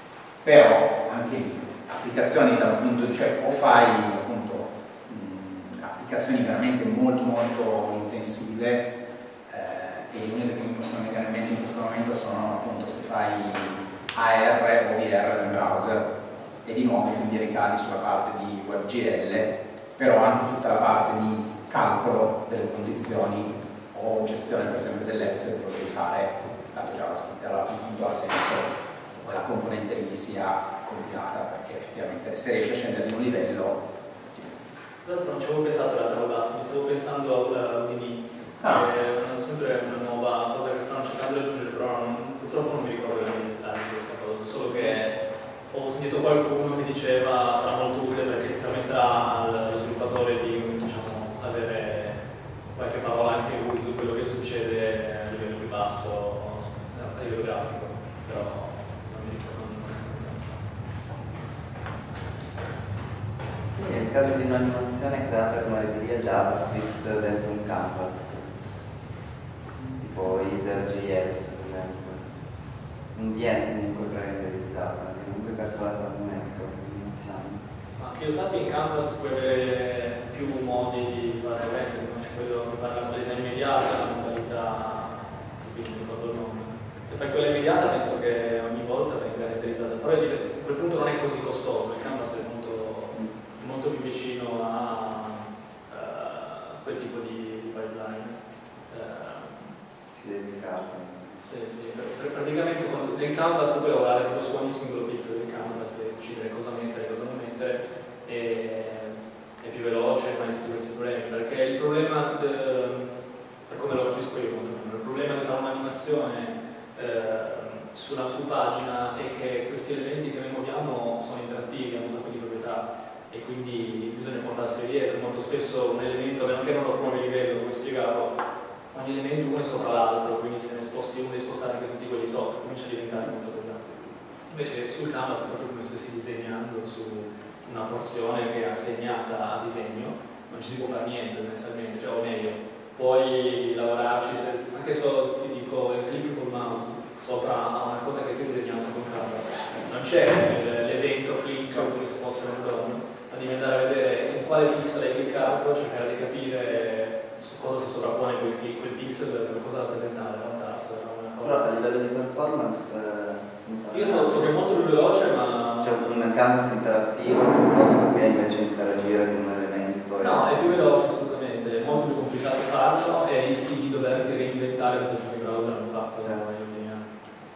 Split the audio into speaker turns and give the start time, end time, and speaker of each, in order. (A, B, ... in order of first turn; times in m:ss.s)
0:00.4-0:08.9 A
0:09.5-0:16.1 A
0:16.6-0:33.8 A
0:35.0-0:45.2 B
0:38.6-0:38.8 A
0:45.7-1:00.7 B
1:03.7-1:08.5 C
1:09.8-1:12.4 C
1:13.1-1:17.6 C
1:18.0-1:39.8 B
1:33.1-1:33.4 C
1:40.1-1:41.4 C
1:41.4-2:08.4 B
2:08.9-2:41.6 B
2:41.4-2:44.6 C
2:43.9-2:46.0 B
2:45.8-2:50.5 C
2:50.2-2:57.1 B